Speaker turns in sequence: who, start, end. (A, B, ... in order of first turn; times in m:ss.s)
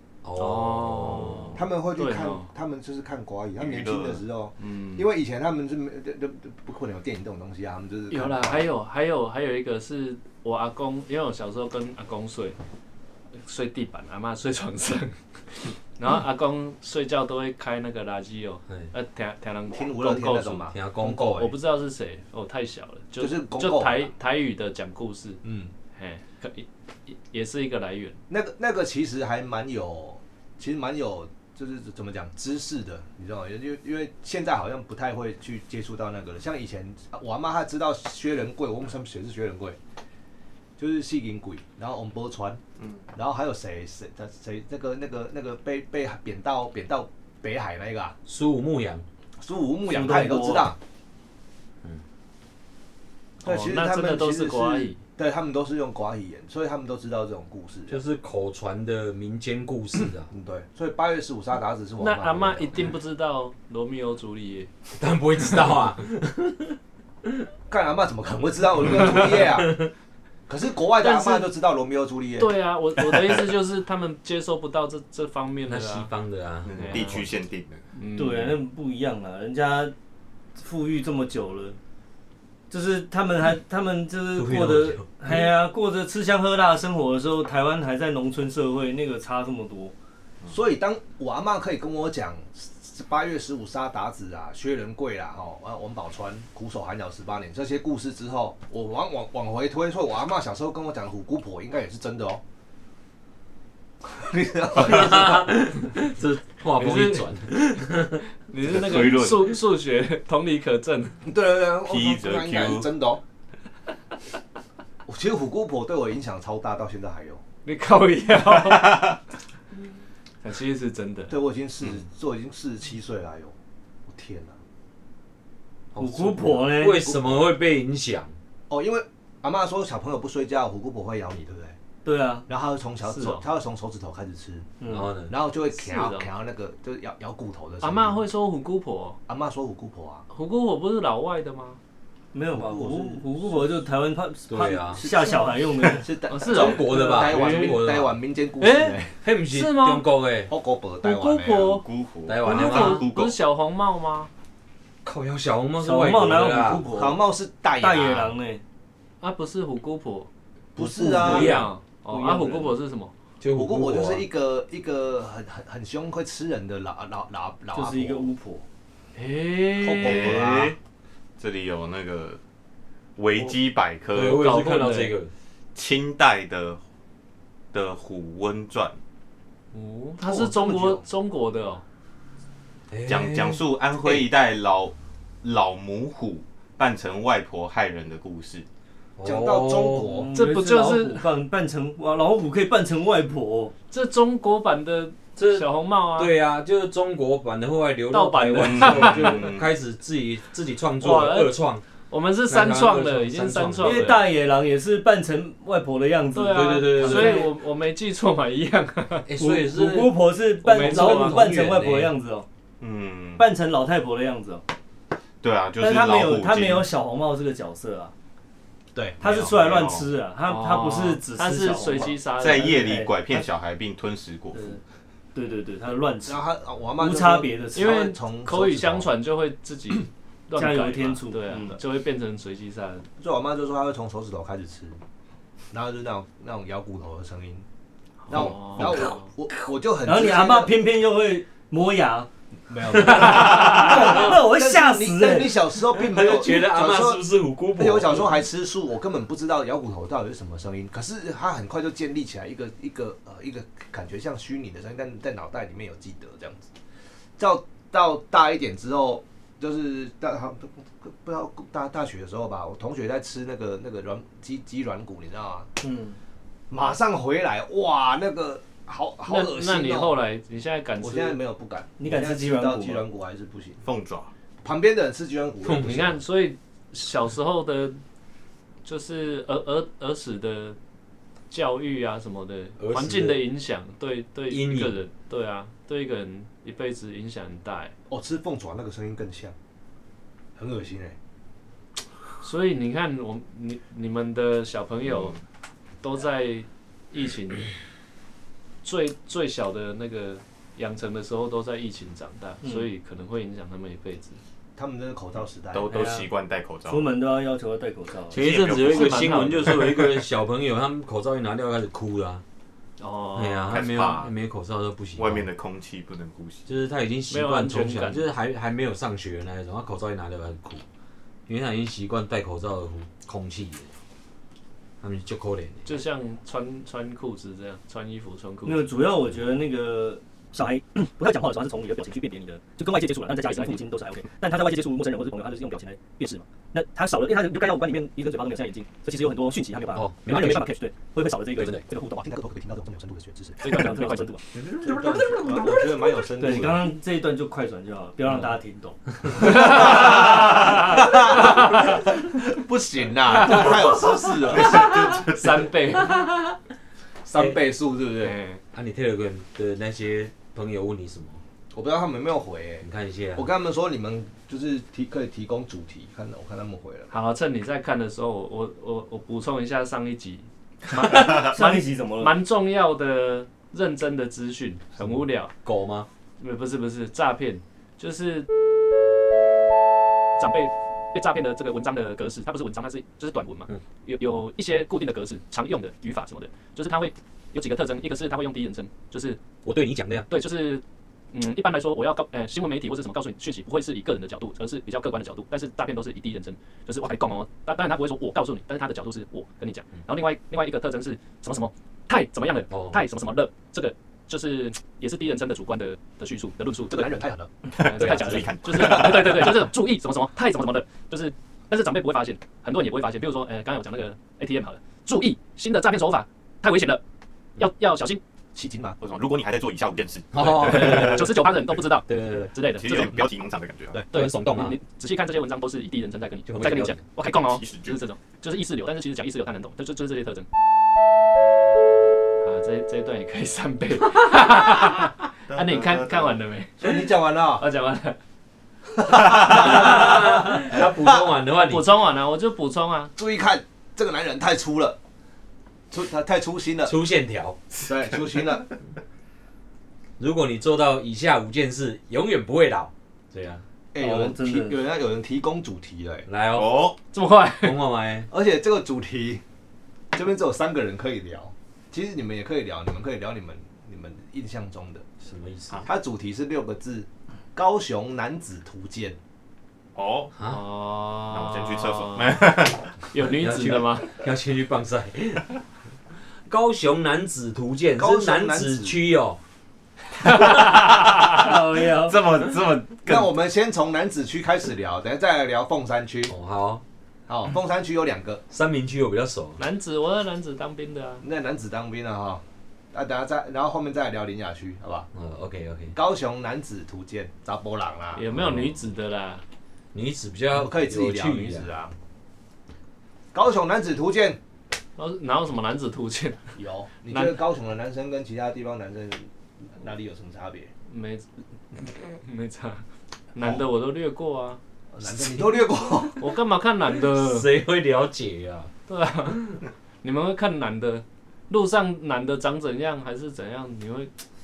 0:00.2-0:01.6 A
0:00.4-0:02.5 B
0:01.5-0:08.7 C
0:03.6-0:04.2 D
0:04.6-0:05.0 B
0:08.1-0:12.6 B
0:13.4-0:25.4 B
0:19.7-0:21.5 C
0:20.7-0:21.5 A
0:23.2-0:24.1 C
0:25.4-0:25.7 C
0:25.9-0:28.2 B
0:28.3-0:39.8 C
0:40.8-0:42.6 C
0:43.1-0:48.2 C
0:48.2-0:49.0 A
0:49.4-0:50.8 C
0:49.9-0:50.7 E
0:53.4-0:55.0 B
0:53.4-0:58.0 C
0:57.9-1:00.3 A
1:00.3-1:02.8 C
1:02.0-1:04.7 B
1:05.0-1:07.4 A
1:07.7-1:09.8 C
1:10.5-1:12.5 C
1:11.0-1:11.5 B
1:12.4-1:16.1 B
1:15.7-1:17.3 A
1:16.6-1:17.8 D
1:16.7-1:17.2 B
1:17.9-1:18.6 B
1:18.1-1:19.9 E
1:20.6-1:21.8 E
1:22.7-1:29.9 E
1:24.3-1:25.5 A
1:30.5-1:42.4 C
1:44.1-1:45.4 C
1:44.7-1:48.2 A
1:46.8-1:47.8 B
1:48.5-1:51.2 B
1:48.6-1:49.6 D
1:51.2-1:53.2 C
1:51.9-1:52.9 D
1:55.0-1:57.4 C
1:57.6-1:59.1 B
1:58.7-1:59.1 D
2:00.4-2:01.3 B
2:01.3-2:03.5 C
2:04.1-2:04.6 C
2:05.9-2:08.3 A
2:06.0-2:07.1 E
2:07.0-2:07.4 C
2:08.7-2:11.8 C
2:12.0-2:12.5 E
2:12.5-2:14.7 C
2:13.0-2:13.4 B
2:14.8-2:15.1 E
2:14.9-2:15.3 A
2:15.3-2:18.2 C
2:15.7-2:16.3 B
2:17.8-2:19.2 B
2:19.3-2:20.2 C
2:20.3-2:21.8 B
2:22.3-2:26.1 E
2:22.5-2:23.6 C
2:24.5-2:25.0 A
2:25.0-2:29.1 C
2:26.3-2:27.8 B
2:26.5-2:28.2 A
2:28.6-2:30.0 B
2:29.2-2:30.5 A
2:30.5-2:31.8 C
2:31.0-2:31.8 B
2:31.7-2:33.4 D
2:32.2-2:33.1 A
2:32.4-2:34.3 B
2:35.0-2:36.8 A
2:35.8-2:37.2 E
2:36.9-2:38.3 C
2:37.8-2:38.6 E
2:39.2-2:40.3 B
2:40.8-2:41.6 C
2:40.8-2:42.7 E
2:41.2-2:43.1 B
2:41.2-2:41.7 A
2:43.4-2:44.3 A
2:43.4-2:48.3 C
2:47.7-2:48.6 E
2:49.1-2:50.4 B
2:49.8-2:50.8 C
2:50.0-2:50.8 D
2:51.4-2:52.4 D
2:53.2-2:54.5 D
2:54.1-2:55.3 A
2:54.2-2:55.1 B
2:55.7-2:56.8 D
2:57.7-2:59.0 D
2:59.7-3:01.8 B
3:00.2-3:01.0 C
3:02.9-3:03.6 A
3:03.1-3:08.6 D
3:09.2-3:10.1 A
3:09.2-3:10.3 C
3:10.1-3:13.7 E
3:10.3-3:11.3 B
3:13.9-3:16.3 B
3:15.4-3:21.8 A
3:18.1-3:19.5 B
3:18.6-3:19.7 D
3:21.0-3:24.3 B
3:22.5-3:24.1 A
3:23.8-3:27.5 E
3:26.3-3:29.3 B
3:26.5-3:27.5 A
3:29.2-3:32.1 A
3:29.4-3:32.4 E
3:30.6-3:31.6 B
3:32.8-3:33.5 D
3:33.4-3:34.6 E
3:35.4-3:36.9 D
3:35.8-3:38.1 E
3:38.9-3:39.5 C
3:39.2-3:43.4 E
3:39.3-3:40.1 D
3:40.4-3:42.7 B
3:42.3-3:44.8 D
3:44.5-3:44.8 E
3:45.3-3:46.4 E
3:46.2-3:49.1 C
3:47.0-3:47.9 E
3:47.7-3:53.0 B
3:50.5-3:51.8 E
3:53.2-3:55.0 C
3:55.7-3:57.6 C
3:58.3-3:59.2 B
3:58.3-4:00.7 C
4:00.0-4:02.3 E
4:02.7-4:16.7 C
4:03.0-4:05.6 E
4:03.1-4:04.2 A
4:05.9-4:08.4 A
4:17.4-4:25.7 C
4:25.8-4:26.2 E
4:26.7-4:30.1 C
4:29.3-4:31.4 B
4:31.0-4:33.8 C
4:32.0-4:33.0 E
4:33.8-4:34.3 D
4:34.6-4:36.2 C
4:35.6-4:36.0 A
4:35.8-4:38.0 B
4:38.8-4:40.8 B
4:41.5-4:47.9 B
4:42.8-4:43.4 A
4:44.5-4:45.0 A
4:48.1-4:49.5 C
4:50.6-4:51.2 C
4:52.4-4:55.4 B
4:56.0-4:57.7 B
4:58.8-5:04.4 B
5:04.8-5:05.9 C
5:05.7-5:07.1 D
5:05.9-5:06.3 E
5:06.8-5:08.5 E
5:08.3-5:12.4 A
5:08.3-5:10.1 D
5:08.8-5:09.9 B
5:13.0-5:13.9 B
5:13.4-5:15.5 A
5:13.7-5:14.3 D
5:15.2-5:16.7 D
5:16.7-5:20.8 A
5:17.3-5:18.3 B
5:21.5-5:23.9 A
5:25.0-5:25.9 A
5:25.8-5:28.9 B
5:28.6-5:42.3 E
5:33.4-5:33.8 B
5:39.9-5:40.7 A
5:41.6-5:41.8 A
5:42.1-5:43.8 C
5:43.6-5:44.4 B
5:43.6-5:44.4 E
5:44.7-5:46.9 C
5:46.4-5:49.8 E
5:49.4-5:50.7 B
5:49.4-5:55.2 C
5:53.4-5:56.3 B
5:54.6-5:55.5 D
5:57.2-5:58.4 C
5:58.2-5:58.6 B
5:58.7-6:01.4 A
6:01.7-6:07.1 C
6:02.8-6:03.5 A
6:07.1-6:15.5 B
6:11.1-6:12.4 E
6:15.0-6:16.1 A
6:16.4-6:18.5 B
6:20.4-6:29.4 B
6:29.6-6:30.3 A
6:30.3-6:47.2 B
6:42.7-6:43.0 A
6:46.9-6:47.5 C
6:47.8-6:57.0 B
6:47.8-6:49.6 D
6:47.9-6:48.6 A
6:57.6-6:58.2 B
6:58.5-6:59.0 C
6:59.0-7:01.3 D
7:00.3-7:01.4 A
7:00.4-7:03.2 B
7:02.0-7:02.5 A
7:02.7-7:04.0 D
7:04.1-7:10.5 B
7:04.1-7:04.8 A
7:06.5-7:07.0 A
7:07.2-7:08.0 D
7:12.4-7:18.2 B
7:15.5-7:16.4 D
7:16.8-7:17.6 C
7:19.0-7:21.2 C
7:19.3-7:21.8 A
7:21.7-7:23.1 B
7:23.2-7:25.0 C
7:25.9-7:26.9 C
7:26.8-7:27.6 A
7:27.8-7:28.7 C
7:30.2-7:33.6 A
7:33.9-7:36.3 C
7:34.0-7:34.8 E
7:36.3-7:36.7 A
7:36.5-7:37.0 D
7:37.1-7:37.8 B
7:37.6-7:38.3 A
7:38.3-7:39.4 C
7:40.1-7:45.0 C
7:45.2-7:45.9 A
7:45.8-7:49.2 C
7:49.9-7:50.3 D
7:50.4-7:52.4 B
7:51.3-7:52.9 D
7:53.0-7:54.1 B
7:53.2-7:55.5 A
7:56.5-7:59.4 A
7:58.0-7:59.0 C
8:00.2-8:01.4 B
8:01.3-8:02.2 E
8:01.9-8:03.3 D
8:03.0-8:06.3 C
8:06.3-8:06.8 A
8:07.3-8:08.4 C
8:08.5-8:09.6 A
8:09.6-8:11.2 B
8:11.2-8:15.1 C
8:15.1-8:15.9 A
8:15.9-8:18.2 C
8:18.1-8:19.4 B
8:18.3-8:18.8 A
8:19.9-8:21.7 A
8:20.5-8:21.9 C
8:23.3-8:24.4 C
8:25.0-8:26.5 B
8:26.6-8:30.7 C
8:27.1-8:27.4 B
8:30.9-8:31.2 B
8:31.8-8:32.8 B
8:33.3-8:34.6 B
8:34.9-8:36.2 C
8:36.2-8:37.5 B
8:37.0-8:38.7 A
8:38.9-8:44.1 B